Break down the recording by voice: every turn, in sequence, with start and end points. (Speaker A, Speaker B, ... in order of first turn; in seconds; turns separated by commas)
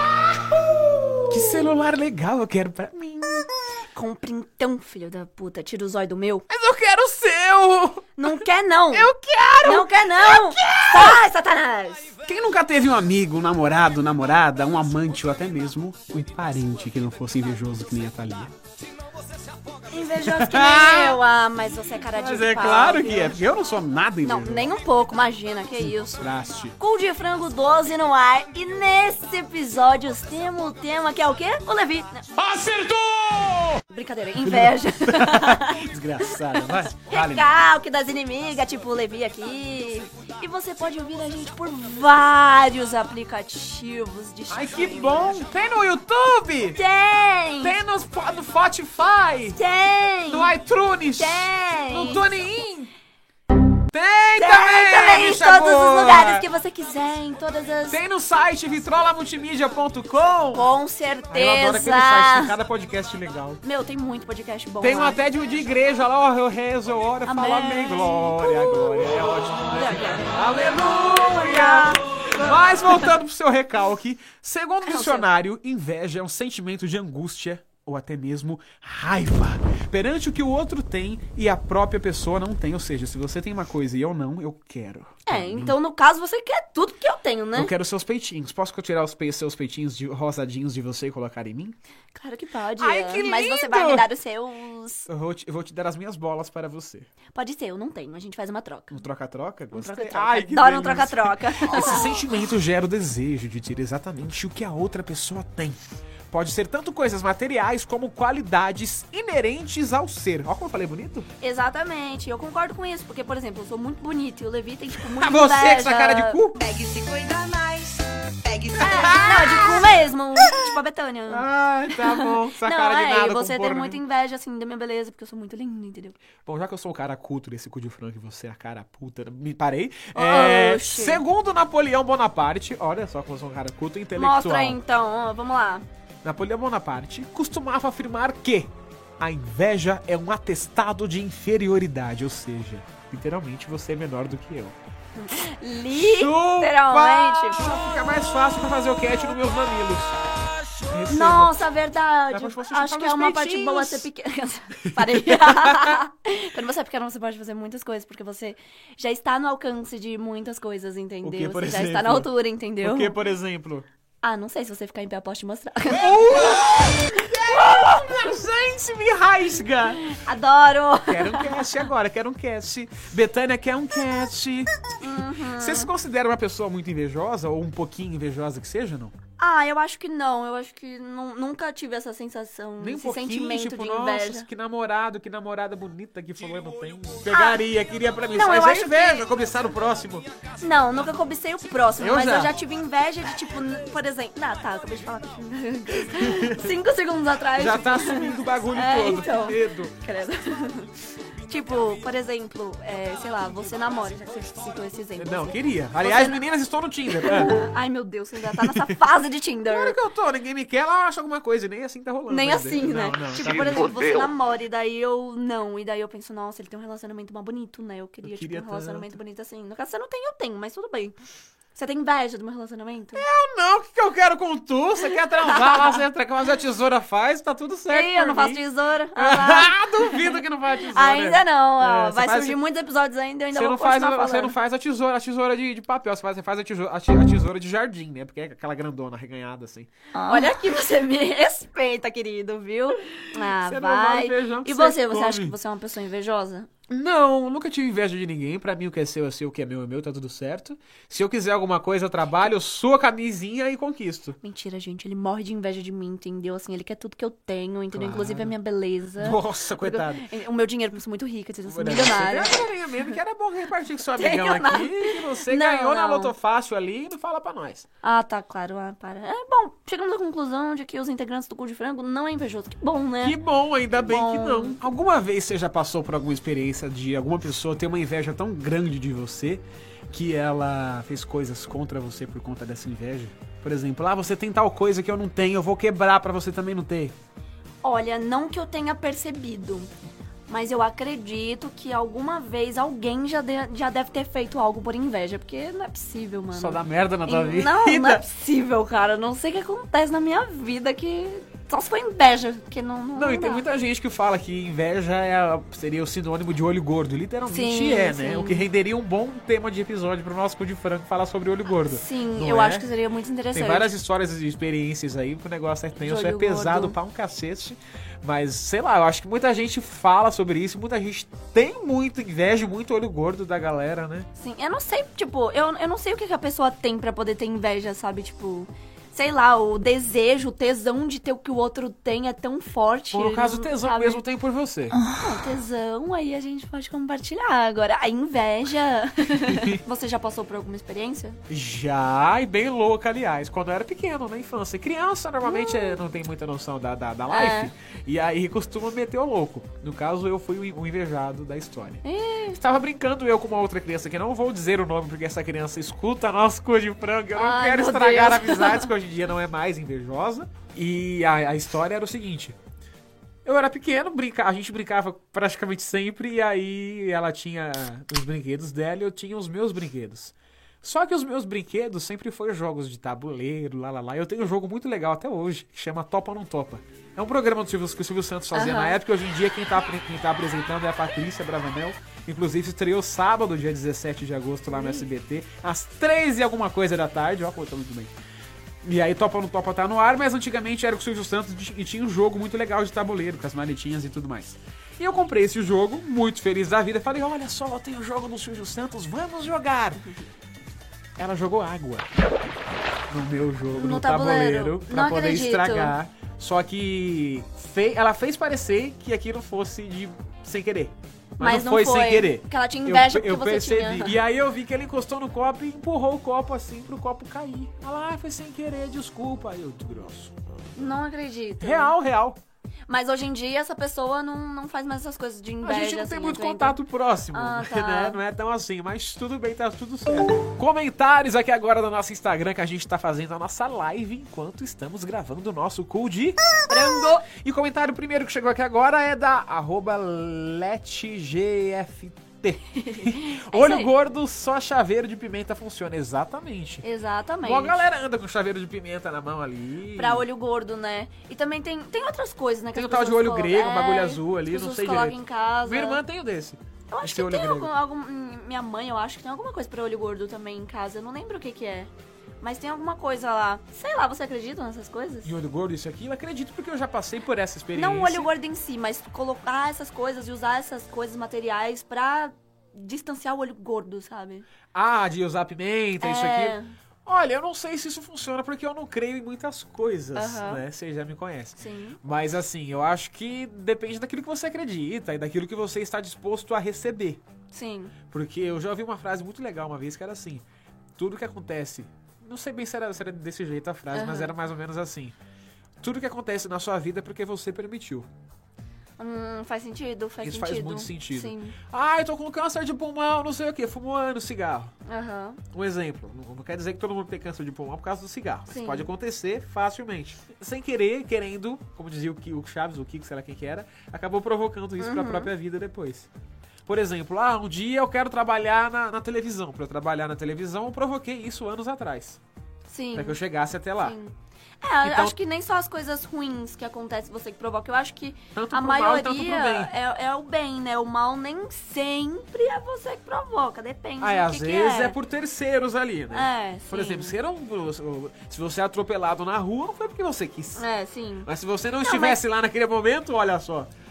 Speaker A: 1.3-3.5, Speaker B: 3.9-6.5, Speaker A: 6.5-11.2, Speaker B: 8.2-9.1, Speaker B: 9.6-12.2, Speaker A: 12.2-18.5, Speaker B: 19.9-23.4, Speaker A: 20.2-21.2, Speaker A: 22.1-24.7, Speaker B: 24.2-32.3, Speaker A: 25.8-26.7, Speaker A: 32.4-33.8, Speaker B: 33.9-45.4, Speaker A: 34.4-37.5, Speaker A: 44.5-46.8, Speaker B: 46.7-47.8, Speaker A: 47.6-49.6, Speaker B: 49.5-50.5, Speaker A: 50.3-52.9, Speaker B: 51.2-52.3, Speaker A: 53.9-56.5, Speaker B: 54.4-58.0, Speaker A: 57.9-60.7, Speaker B: 60.5-62.5, Speaker A: 61.3-63.6, Speaker B: 63.6-65.2, Speaker A: 64.8-85.8, Speaker B: 67.2-72.0, Speaker B: 74.8-75.3, Speaker B: 85.3-87.7, Speaker A: 87.5-91.8, Speaker B: 92.1-95.1, Speaker A: 92.8-94.1, Speaker A: 95.1-97.1, Speaker B: 97.3-99.0, Speaker A: 98.9-111.3, Speaker B: 99.7-102.3, Speaker B: 111.4-116.4, Speaker A: 115.0-116.6, Speaker C: 116.6-119.1, Speaker A: 118.7-120.6, Speaker B: 118.8-126.2, Speaker A: 121.3-124.0, Speaker A: 126.5-134.8, Speaker B: 130.2-131.2, Speaker B: 134.2-135.8, Speaker A: 136.2-144.8, Speaker B: 145.2-147.8, Speaker A: 145.9-150.2, Speaker A: 150.9-151.6, Speaker B: 151.1-163.2, Speaker A: 152.3-154.1, Speaker A: 154.9-155.9, Speaker A: 161.2-162.3, Speaker A: 162.8-163.9, Speaker B: 164.2-167.5, Speaker A: 165.9-170.1, Speaker B: 170.1-171.9, Speaker A: 171.0-174.7, Speaker B: 175.0-175.9, Speaker A: 175.6-179.1, Speaker B: 179.4-184.5, Speaker A: 182.8-190.3, Speaker B: 187.3-187.6, Speaker B: 188.3-189.3, Speaker B: 190.6-206.5, Speaker A: 192.0-192.6, Speaker A: 196.0-196.7, Speaker A: 197.6-199.9, Speaker A: 205.2-207.7, Speaker B: 207.1-210.0, Speaker A: 208.4-209.0, Speaker A: 209.7-214.0, Speaker B: 212.3-221.2, Speaker A: 218.2-219.1, Speaker B: 221.8-223.2, Speaker A: 223.2-228.6, Speaker B: 225.3-226.0, Speaker B: 227.9-234.6, Speaker A: 229.2-232.6, Speaker A: 233.5-239.9, Speaker B: 240.2-246.7, Speaker A: 243.4-245.6, Speaker A: 246.9-254.4, Speaker B: 254.4-263.2, Speaker A: 257.9-258.5, Speaker A: 259.2-260.2, Speaker A: 261.7-267.9, Speaker B: 264.1-266.3, Speaker B: 268.0-273.4, Speaker A: 273.2-287.1, Speaker B: 273.9-274.8, Speaker B: 287.8-289.9, Speaker B: 290.5-303.7, Speaker A: 296.5-298.2, Speaker A: 303.1-312.9, Speaker B: 307.5-308.7, Speaker B: 311.8-313.9, Speaker A: 313.5-324.3, Speaker B: 316.0-317.0, Speaker B: 324.4-334.2, Speaker A: 333.1-335.0, Speaker B: 335.0-341.4, Speaker A: 339.4-339.8, Speaker A: 341.5-362.6, Speaker B: 345.4-346.0, Speaker B: 347.3-347.7, Speaker B: 352.0-352.6, Speaker B: 357.4-358.9, Speaker A: 363.4-388.1, Speaker B: 378.5-379.0, Speaker B: 384.7-385.0, Speaker A: 388.8-400.1, Speaker A: 401.2-402.1, Speaker A: 403.1-420.8, Speaker B: 403.7-405.9, Speaker B: 411.4-414.2, Speaker B: 420.8-421.9, Speaker A: 421.6-422.4, Speaker B: 422.9-428.2, Speaker A: 425.6-436.4, Speaker B: 436.7-437.3, Speaker A: 437.3-446.8, Speaker B: 442.8-443.9, Speaker B: 446.8-447.9, Speaker A: 447.4-450.2, Speaker B: 449.9-456.0, Speaker A: 452.8-457.7, Speaker B: 456.9-465.4, Speaker A: 465.2-468.3, Speaker B: 467.7-474.5, Speaker A: 474.7-487.2, Speaker B: 476.0-476.8, Speaker B: 480.1-480.6, Speaker B: 481.6-482.0, Speaker B: 487.5-487.9, Speaker A: 488.1-490.4, Speaker A: 491.0-495.1, Speaker B: 493.9-494.4, Speaker A: 495.8-498.1, Speaker B: 499.0-501.6, Speaker A: 500.2-504.7, Speaker B: 504.9-505.4, Speaker A: 505.5-516.1, Speaker B: 508.5-508.9, Speaker B: 514.8-515.3, Speaker A: 516.7-522.2, Speaker B: 522.7-523.2, Speaker A: 523.0-524.0, Speaker B: 523.8-535.0, Speaker A: 524.8-525.2, Speaker A: 528.4-529.7, Speaker A: 534.0-540.6, Speaker B: 536.1-537.2, Speaker B: 540.6-542.2, Speaker A: 541.2-543.7